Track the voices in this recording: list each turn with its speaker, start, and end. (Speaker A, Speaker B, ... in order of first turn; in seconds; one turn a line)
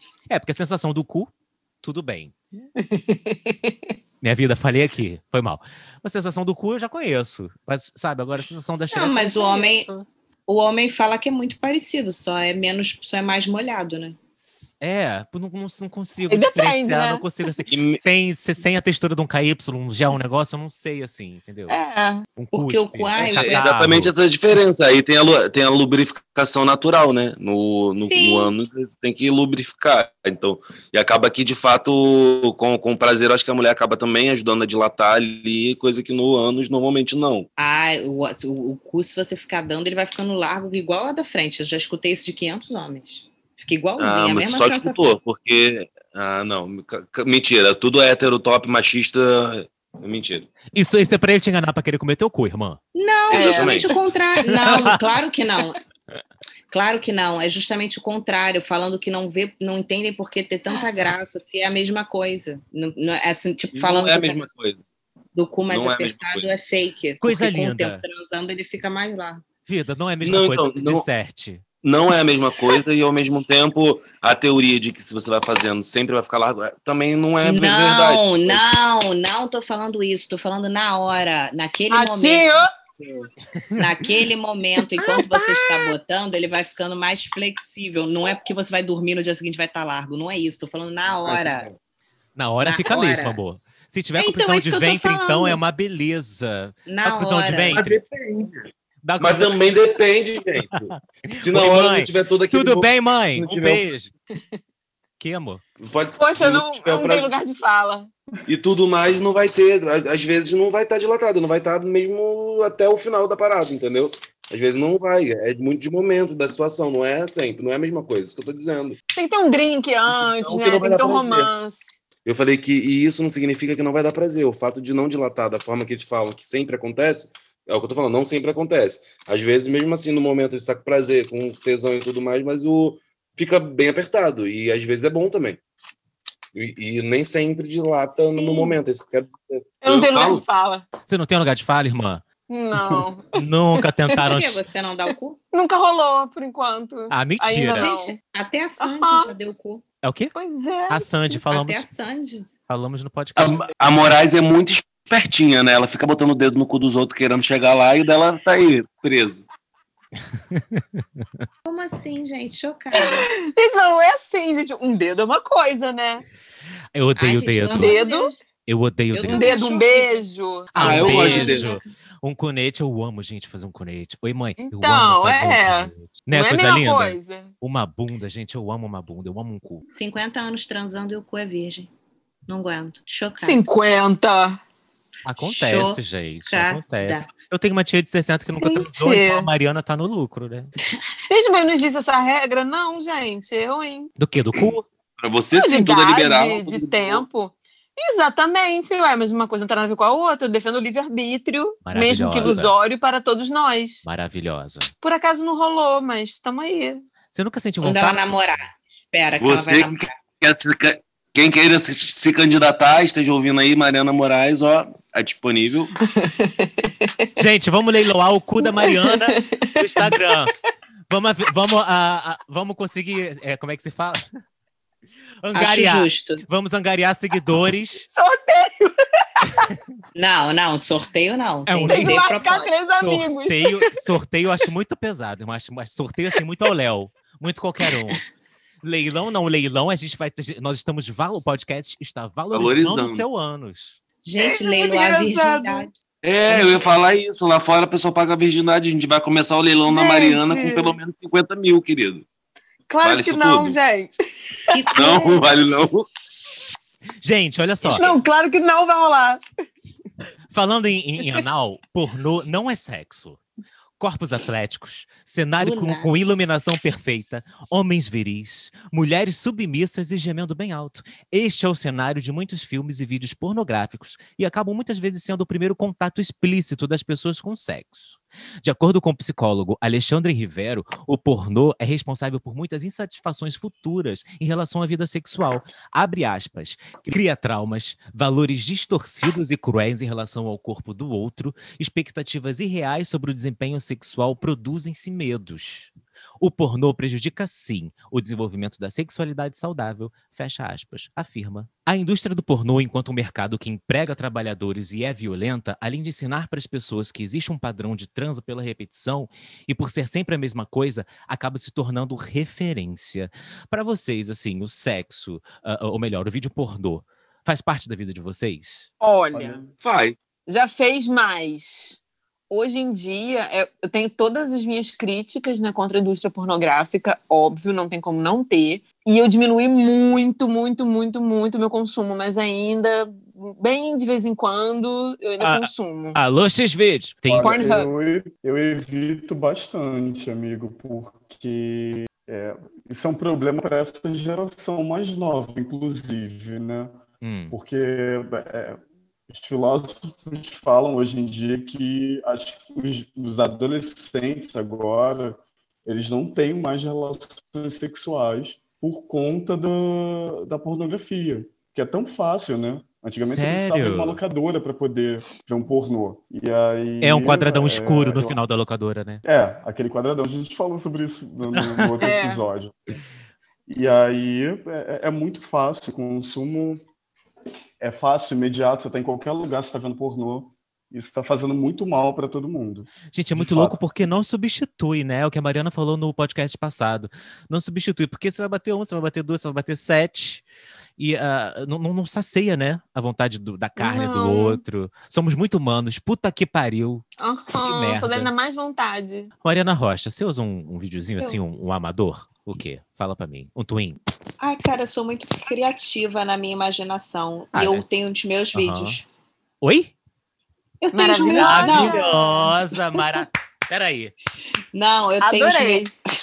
Speaker A: 0.3-1.3
Speaker A: 1.8-2.6
Speaker B: 2.8-3.9
Speaker A: 4.2-10.0
Speaker C: 8.9-9.9
Speaker C: 10.5-14.2
Speaker A: 14.4-21.8
Speaker B: 16.3-17.3
Speaker D: 17.7-18.0
Speaker B: 21.7-22.3
Speaker A: 22.4-24.1
Speaker C: 22.5-23.7
Speaker D: 23.2-37.5
Speaker C: 28.0-28.5
Speaker C: 37.6-45.1
Speaker D: 44.0-50.5
Speaker A: 50.7-52.8
Speaker C: 53.0-55.8
Speaker B: 53.3-53.9
Speaker D: 53.3-53.9
Speaker A: 54.5-55.0
Speaker C: 56.7-64.5
Speaker D: 63.7-64.8
Speaker C: 65.3-69.4
Speaker D: 65.7-66.5
Speaker A: 67.2-68.0
Speaker A: 69.7-71.6
Speaker D: 70.2-71.1
Speaker D: 71.8-78.7
Speaker C: 77.4-82.5
Speaker B: 81.9-82.7
Speaker D: 83.0-83.3
Speaker C: 83.8-91.7
Speaker D: 91.2-91.8
Speaker A: 92.4-98.0
Speaker C: 92.6-93.4
Speaker C: 94.2-95.6
Speaker C: 96.9-97.8
Speaker D: 97.7-103.8
Speaker A: 99.0-99.6
Speaker A: 100.7-104.1
Speaker A: 105.2-105.6
Speaker D: 105.8-107.3
Speaker B: 106.2-108.1
Speaker D: 108.5-119.0
Speaker B: 119.1-121.9
Speaker D: 120.1-121.5
Speaker D: 122.2-135.6
Speaker D: 136.5-140.4
Speaker C: 138.2-138.8
Speaker B: 139.8-140.9
Speaker A: 141.1-142.2
Speaker B: 142.5-143.3
Speaker A: 143.3-144.6
Speaker C: 144.2-145.4
Speaker B: 145.5-148.2
Speaker A: 147.1-147.9
Speaker C: 147.7-149.8
Speaker B: 148.8-149.3
Speaker A: 150.0-150.3
Speaker B: 150.3-151.4
Speaker A: 150.9-151.9
Speaker C: 151.5-152.5
Speaker A: 152.7-153.8
Speaker D: 153.4-159.4
Speaker A: 160.5-161.2
Speaker C: 161.7-163.3
Speaker B: 163.0-166.2
Speaker A: 166.9-168.0
Speaker C: 167.2-168.4
Speaker B: 167.8-168.3
Speaker A: 168.7-169.5
Speaker C: 169.1-170.2
Speaker B: 169.3-171.4
Speaker D: 170.8-171.7
Speaker A: 170.8-179.8
Speaker C: 170.8-171.9
Speaker B: 174.6-177.5
Speaker C: 179.9-181.9
Speaker C: 182.5-183.6
Speaker B: 183.4-184.6
Speaker A: 185.2-190.7
Speaker C: 185.4-187.3
Speaker B: 188.6-189.5
Speaker B: 191.3-194.1
Speaker A: 194.2-194.9
Speaker D: 195.2-197.3
Speaker B: 195.6-204.1
Speaker A: 201.8-202.7
Speaker A: 204.1-204.9
Speaker B: 205.0-207.0
Speaker A: 207.3-208.2
Speaker C: 207.8-210.1
Speaker D: 209.4-215.9
Speaker B: 216.1-217.3
Speaker A: 217.4-220.5
Speaker B: 218.6-220.2
Speaker A: 221.1-224.2
Speaker A: 225.4-228.1
Speaker C: 225.5-226.4
Speaker B: 228.1-229.7
Speaker C: 230.2-232.7
Speaker A: 231.7-232.3
Speaker B: 231.9-234.1
Speaker A: 233.0-238.2
Speaker A: 238.8-244.0
Speaker D: 242.5-243.2
Speaker C: 244.2-245.9
Speaker B: 244.4-245.9
Speaker D: 246.2-252.2
Speaker B: 249.9-251.0
Speaker B: 252.9-254.8
Speaker D: 253.0-253.8
Speaker C: 254.7-255.5
Speaker D: 254.9-256.1
Speaker A: 257.2-258.1
Speaker B: 257.9-259.4
Speaker A: 260.5-263.4
Speaker A: 264.0-318.9
Speaker C: 265.6-266.1
Speaker B: 319.0-319.7
Speaker D: 319.8-320.2
Speaker B: 320.5-322.0
Speaker B: 322.5-336.2
Speaker A: 335.4-337.8
Speaker E: 337.3-347.0
Speaker B: 337.4-337.9
Speaker A: 347.2-347.6
Speaker E: 347.5-368.4
Speaker A: 363.2-364.2
Speaker A: 367.0-369.2
Speaker E: 369.2-372.8
Speaker A: 371.5-372.0
Speaker B: 372.0-372.4
Speaker E: 373.7-376.8
Speaker E: 377.8-383.8
Speaker A: 383.1-390.4
Speaker A: 391.0-397.0
Speaker B: 393.8-394.6
Speaker B: 397.2-399.3
Speaker A: 397.6-398.3
Speaker A: 399.4-404.0
Speaker C: 404.4-409.0
Speaker A: 407.5-407.9
Speaker A: 408.5-409.0
Speaker A: 409.6-409.9
Speaker C: 410.8-412.1
Speaker B: 410.9-412.6
Speaker A: 411.3-414.1
Speaker C: 414.7-415.9
Speaker B: 415.2-415.9